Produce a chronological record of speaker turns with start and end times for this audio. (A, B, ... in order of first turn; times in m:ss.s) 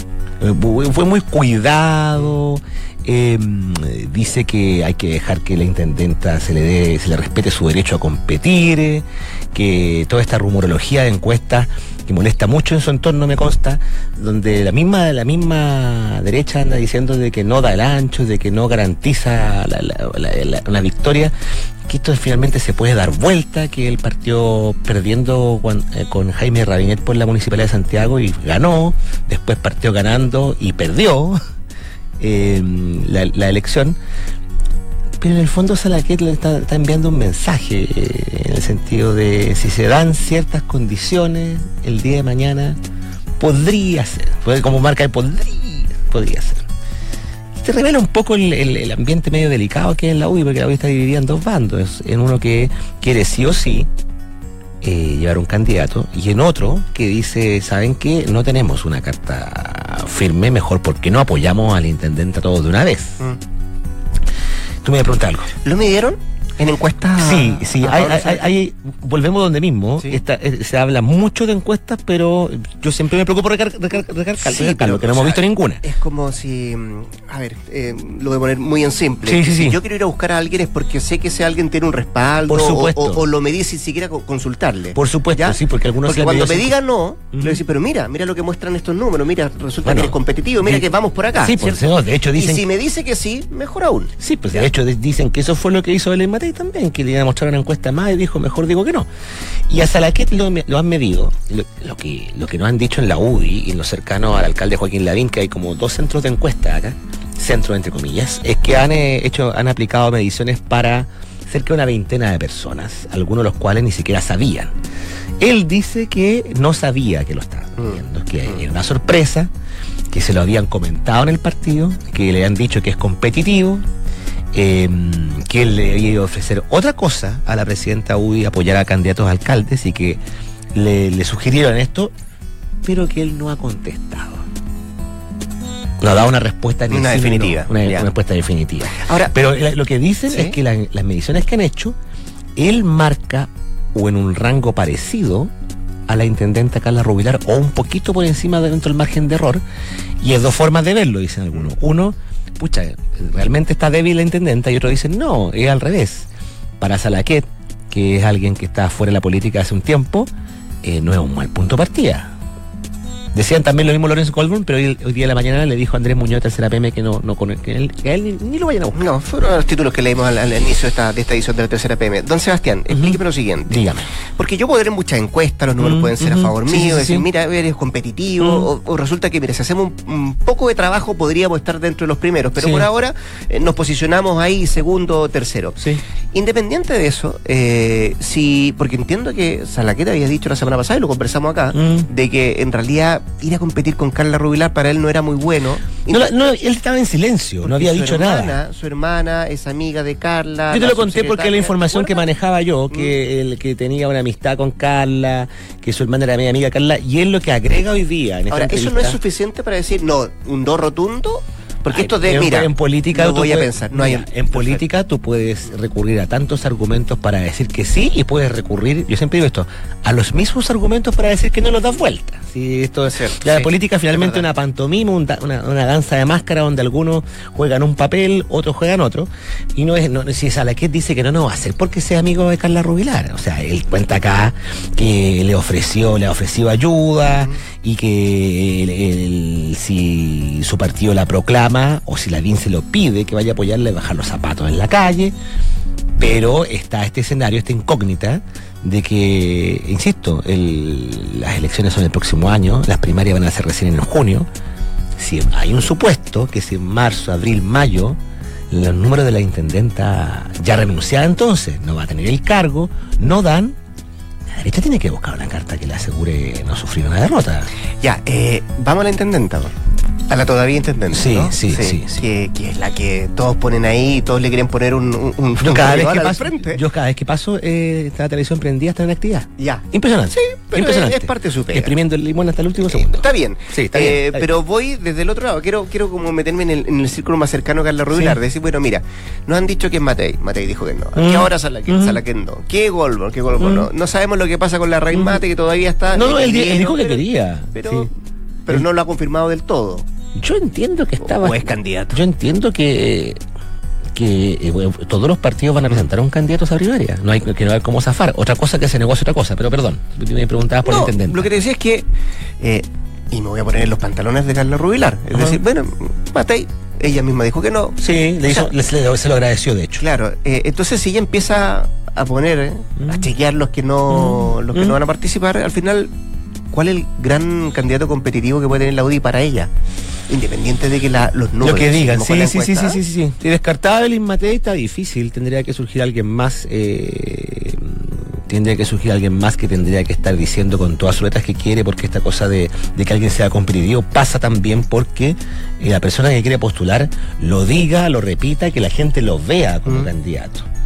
0:00.4-0:21.3 A
0:21.9-0:31.4 A
0:32.2-0:34.0 A
0:35.2-0:42.8 A
0:43.4-0:46.6 A
0:47.6-0:53.9 A
0:54.8-1:03.2 A
1:04.8-1:05.5 A
1:05.6-1:08.5 B
1:07.2-1:15.8 A
1:14.4-1:31.8 B
1:19.2-1:19.8 A
1:22.5-1:23.2 A
1:25.0-1:26.8 A
1:27.3-1:27.6 A
1:29.8-1:32.6 A
1:32.4-1:34.1 B
1:34.2-1:39.1 A
1:39.7-1:54.7 A
1:55.4-1:59.5 A
1:57.8-1:58.6 B
2:00.1-2:03.8 A
2:04.5-2:10.2 A
2:10.7-2:12.1 A
2:12.8-2:14.5 A
2:16.0-2:22.0 A
2:16.9-2:18.1 B
2:18.9-2:19.4 B
2:20.3-2:20.6 B
2:22.6-2:25.5 A
2:26.1-2:29.6 A
2:30.2-2:36.3 A
2:36.8-2:40.3 A
2:40.8-2:42.3 A
2:43.3-2:49.0 A
2:49.0-3:05.8 B
2:52.9-2:53.2 A
2:53.7-2:54.1 A
2:55.8-2:57.3 A
2:58.4-2:58.7 A
3:02.6-3:02.9 A
3:06.3-3:16.4 B
3:11.7-3:12.1 A
3:16.1-3:18.6 A
3:17.6-3:22.3 B
3:20.7-3:29.2 A
3:28.5-3:34.8 B
3:31.9-4:05.3 A
3:43.1-3:44.4 B
4:06.2-4:14.5 A
4:15.2-4:18.2 A
4:18.7-4:23.8 A
4:24.5-4:27.7 A
4:28.0-4:29.7 B
4:30.3-4:36.8 B
4:31.1-4:32.2 A
4:35.6-4:44.5 A
4:39.6-4:39.9 B
4:40.7-4:41.9 B
4:42.9-4:58.1 B
4:48.1-4:48.4 A
4:51.2-4:52.2 A
4:53.6-4:53.9 A
4:55.1-4:55.4 A
4:56.1-4:58.1 A
4:58.7-5:00.1 B
5:00.4-5:03.4 A
5:01.2-5:02.2 B
5:04.1-5:11.5 A
5:10.8-5:12.1 B
5:12.6-5:18.7 B
5:15.3-5:15.6 A
5:18.0-5:20.1 A
5:20.0-5:26.1 B
5:23.0-5:23.3 A
5:24.1-5:25.0 A
5:26.7-5:29.7 B
5:30.3-5:33.0 B
5:31.6-5:50.7 A